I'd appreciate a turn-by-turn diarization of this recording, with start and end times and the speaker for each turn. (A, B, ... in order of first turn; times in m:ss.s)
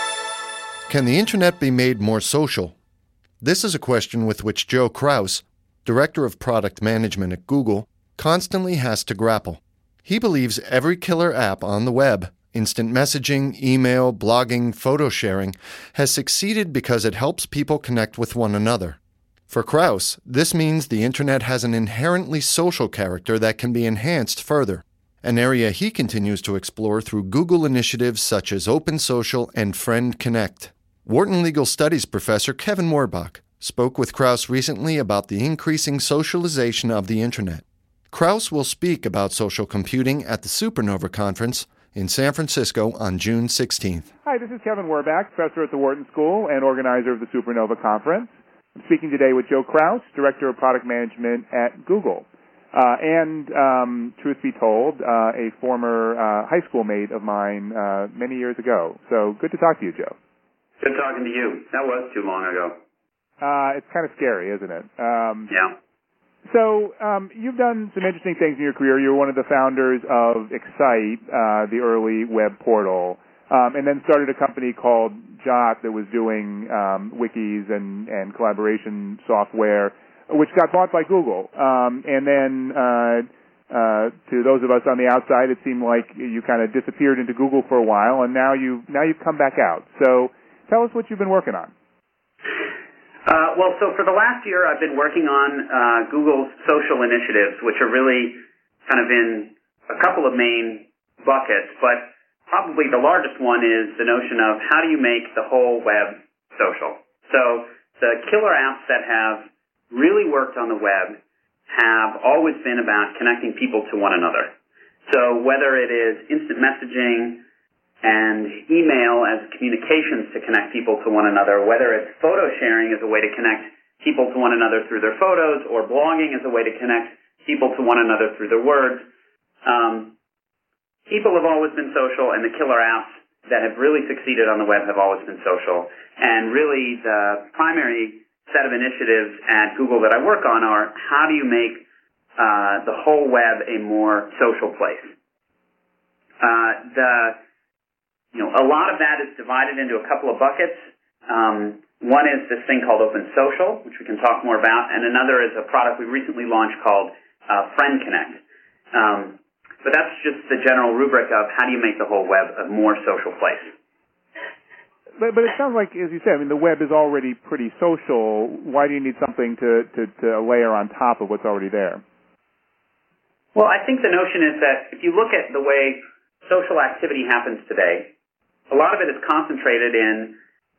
0:00.9-0:02.7 A
0:03.4-0:19.0 A
0:19.5-0:44.1 A
0:44.2-1:00.2 B
1:00.8-1:02.8 C
1:03.4-1:05.5 B
1:05.5-1:05.7 C
1:06.4-1:31.7 B
1:33.2-1:51.2 C
1:51.7-1:54.5 C
1:55.1-1:57.4 C
1:58.0-2:09.0 C
2:09.6-2:10.1 C
2:11.1-2:21.8 C
2:22.4-2:25.1 C
2:26.4-2:27.4 C
2:28.3-2:38.4 C
2:38.9-2:43.7 C
2:45.2-2:52.0 B
2:53.5-2:58.1 C
2:58.7-3:00.4 C